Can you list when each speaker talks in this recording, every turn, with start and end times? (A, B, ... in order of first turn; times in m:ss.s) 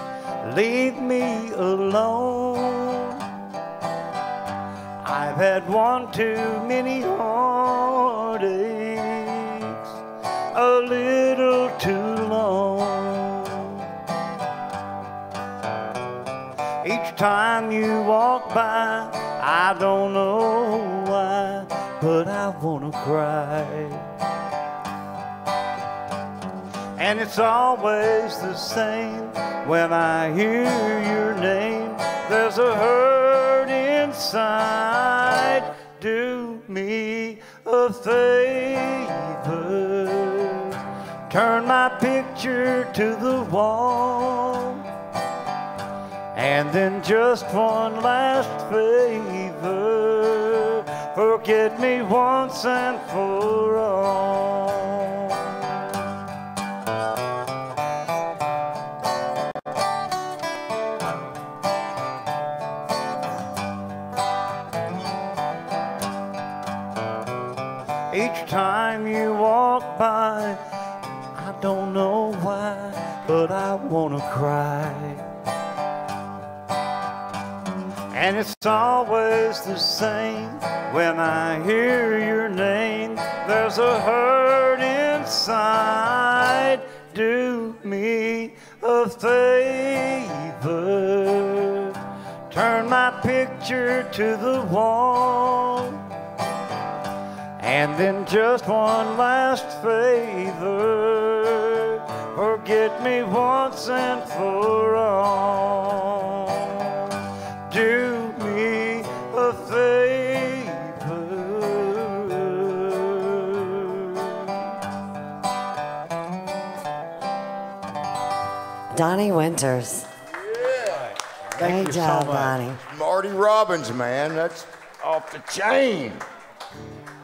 0:00.4-0:03.2 A
0:05.0-0:09.9 A
0:10.5-0:13.9 A
0:16.8-0:24.1 A
0:27.0-0:44.8 A
0:46.3-0:55.4 A
1:08.1-1:10.6 A
1:11.3-1:15.2 A
1:18.1-1:32.0 A
1:32.5-1:36.0 A
1:37.6-1:47.2 A
1:47.7-1:54.6 A
1:58.9-2:00.1 B
2:00.4-2:01.1 C
2:00.9-2:02.6 A
2:01.6-2:02.8 B
2:02.8-2:06.2 C